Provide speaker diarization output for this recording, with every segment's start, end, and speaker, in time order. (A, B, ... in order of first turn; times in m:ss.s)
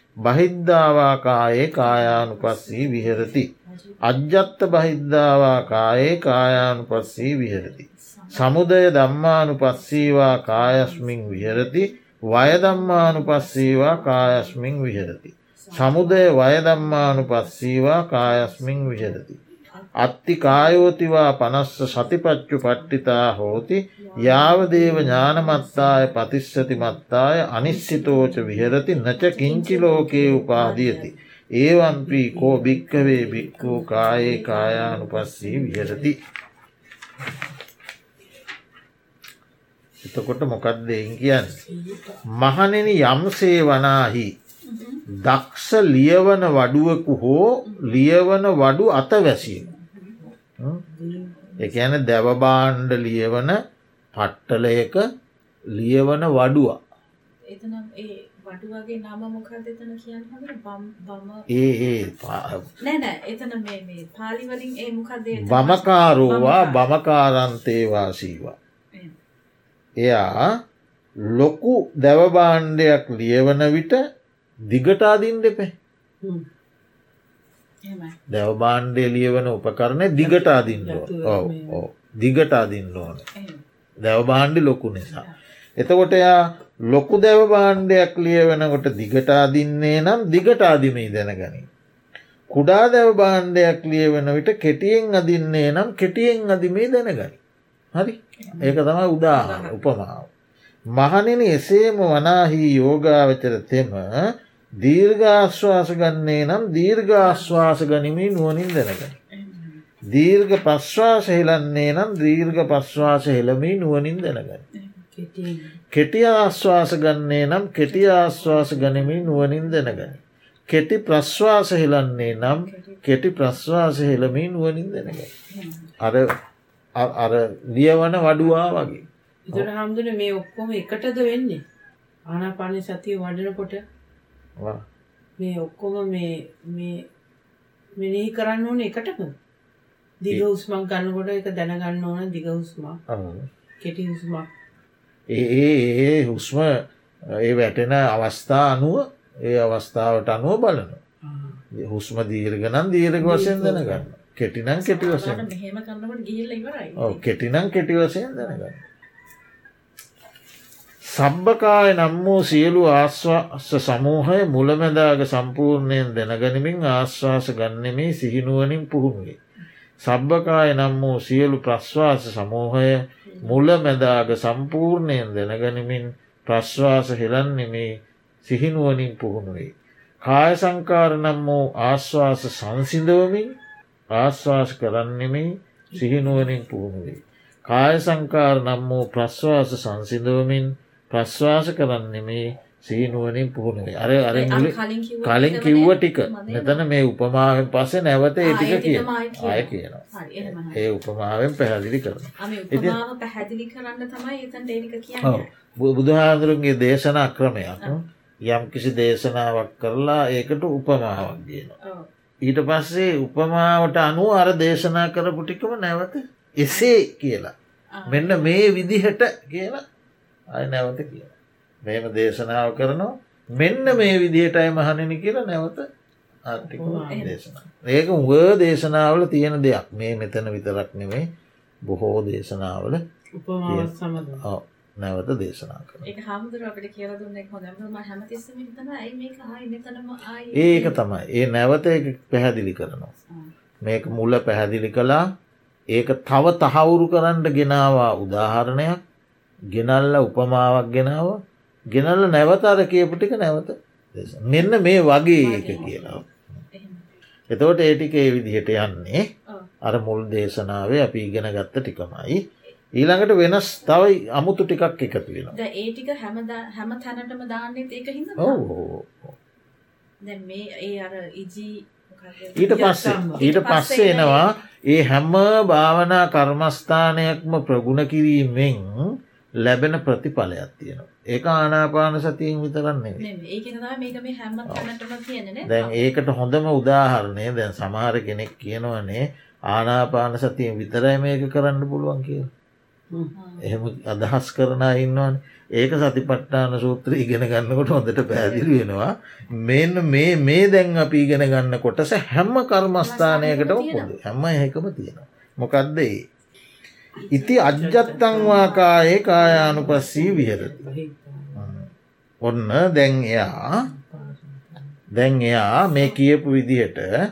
0:00.2-0:03.5 A
0:01.8-0:04.0 B
0:04.0-0:19.4 A
0:06.3-0:08.6 B
0:09.8-0:14.6 B
0:15.6-0:21.0 B
0:20.0-0:36.2 A
0:21.8-0:22.1 B
0:22.8-0:23.2 B
0:24.0-0:26.6 C
0:27.7-0:30.8 B
0:29.7-0:31.1 C
0:31.8-0:36.1 C
0:40.0-0:41.6 A
0:41.6-0:42.2 C
0:42.3-0:44.3 A
0:44.6-0:45.0 B
0:45.1-0:49.7 A
0:47.6-0:48.0 B
0:49.5-0:50.2 B
0:50.9-0:51.6 C
0:51.6-0:53.6 A
0:54.1-0:55.0 A
0:55.7-0:56.8 A
0:57.4-1:01.5 B
1:01.5-1:02.7 A
1:02.8-1:06.8 B
1:05.4-1:08.6 A
1:10.0-1:10.6 A
1:11.2-1:14.0 A
1:14.7-1:15.7 A
1:16.2-1:16.5 C
1:17.8-1:18.2 B
1:18.3-1:23.2 A
1:20.2-1:21.8 C
1:23.3-1:23.6 B
1:24.0-1:25.2 A
1:25.8-1:31.7 A
1:32.5-1:37.4 A
1:37.9-1:40.3 A
1:38.4-1:38.8 B
1:39.3-1:39.8 B
1:40.9-1:44.3 A
1:44.8-1:49.2 A
1:47.2-1:47.6 B
1:49.3-1:49.8 B
1:50.1-1:54.6 A
1:54.7-1:55.0 B
1:55.1-1:55.8 C
1:55.9-2:05.3 A
1:57.9-2:00.0 B
2:02.3-2:03.0 B
2:05.3-2:05.9 B
2:06.0-2:06.3 A
2:07.0-2:09.7 A
2:09.5-2:11.6 C
2:12.3-2:13.8 C
2:14.6-2:14.8 A
2:15.4-2:17.1 C
2:18.0-2:19.4 C
2:20.2-2:23.0 C
2:23.1-2:23.5 A
2:23.8-2:24.5 C
2:25.3-2:31.0 A
2:31.2-2:31.6 C
2:31.7-2:35.5 A
2:33.2-2:34.0 C
2:34.7-2:37.2 B
2:37.0-2:38.8 A
2:41.0-2:49.4 A
2:50.0-3:03.5 A
3:04.1-3:23.0 A
3:05.9-3:06.4 C
3:14.3-3:16.8 B
3:18.4-3:20.8 B
3:22.4-3:25.5 B
3:25.2-3:31.8 A
3:31.8-3:32.1 B
3:32.4-3:37.5 A
3:37.9-3:38.6 B
3:38.1-3:39.8 A
3:40.5-3:41.3 A
3:41.8-3:45.9 A
3:46.4-3:51.3 A
3:46.7-3:47.4 C
3:47.1-3:47.4 B
3:51.8-3:53.0 A
3:53.3-3:54.4 C
3:53.6-3:56.1 A
3:56.0-4:01.0 B
4:00.5-4:03.1 A
4:03.8-4:05.3 A
4:05.9-4:09.0 A
4:09.7-4:16.2 A
4:15.3-4:17.1 B
4:17.5-4:19.3 A
4:19.8-4:22.4 A
4:22.9-4:25.6 A
4:25.5-4:28.6 B
4:28.4-4:29.3 A
4:30.2-4:34.5 B
4:32.6-4:33.4 C
4:32.6-4:43.2 A
4:43.2-4:46.0 B
4:45.6-4:52.5 A
4:53.3-4:53.7 B
4:53.6-5:06.2 A
4:58.3-4:58.7 B
5:03.0-5:04.1 B
5:07.3-5:08.8 C
5:07.3-5:10.9 A
5:08.3-5:10.1 B
5:09.3-5:11.7 C
5:11.5-5:11.9 A
5:12.4-5:13.9 A
5:13.8-5:14.9 C
5:15.1-5:17.1 A